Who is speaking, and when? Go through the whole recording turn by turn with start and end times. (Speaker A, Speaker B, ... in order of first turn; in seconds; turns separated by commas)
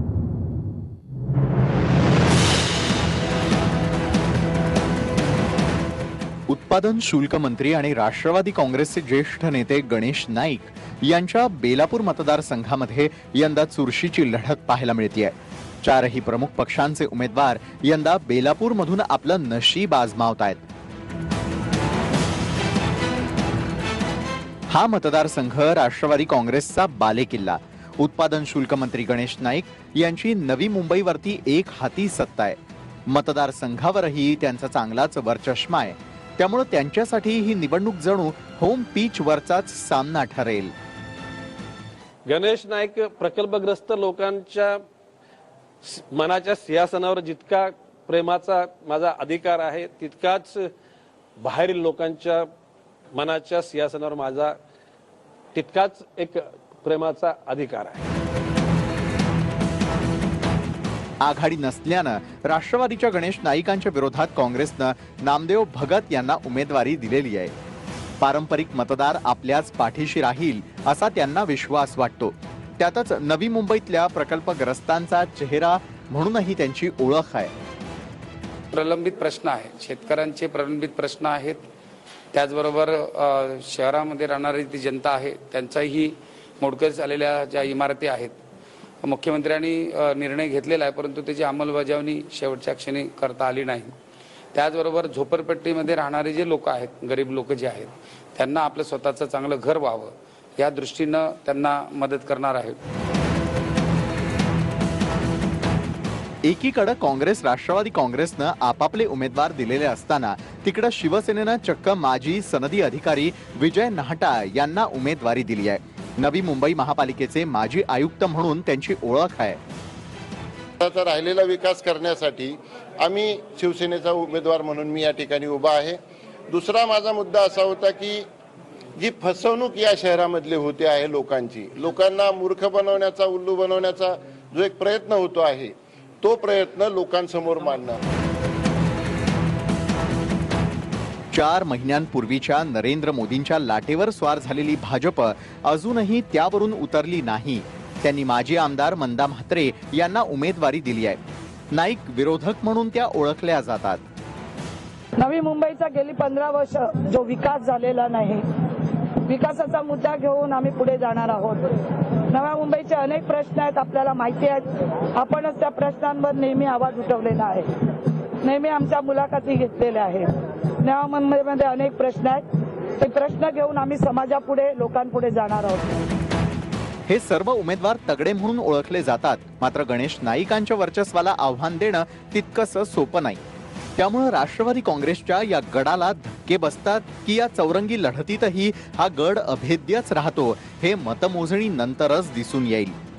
Speaker A: 6.5-20.6, Speaker A: 24.7-32.6, Speaker A: 33.1-40.7, Speaker B: 42.3-44.8, Speaker B: 45.8-50.7, Speaker B: 51.4-52.5, Speaker B: 53.1-54.6, Speaker B: 55.5-58.0, Speaker A: 61.2-67.5, Speaker A: 68.2-77.5, Speaker C: 78.7-81.6, Speaker C: 82.3-88.4, Speaker C: 89.0-93.9, Speaker C: 94.5-102.8, Speaker A: 106.4-119.6, Speaker D: 120.8-126.0, Speaker D: 126.5-128.2, Speaker D: 129.0-138.0, Speaker A: 141.3-151.2, Speaker A: 151.7-154.0, Speaker E: 155.2-158.4, Speaker E: 159.2-161.7, Speaker E: 162.3-167.7, Speaker E: 168.4-170.2, Speaker E: 170.8-172.4, Speaker E: 173.0-176.0, Speaker A: 177.1-183.4, Speaker A: 184.0-192.9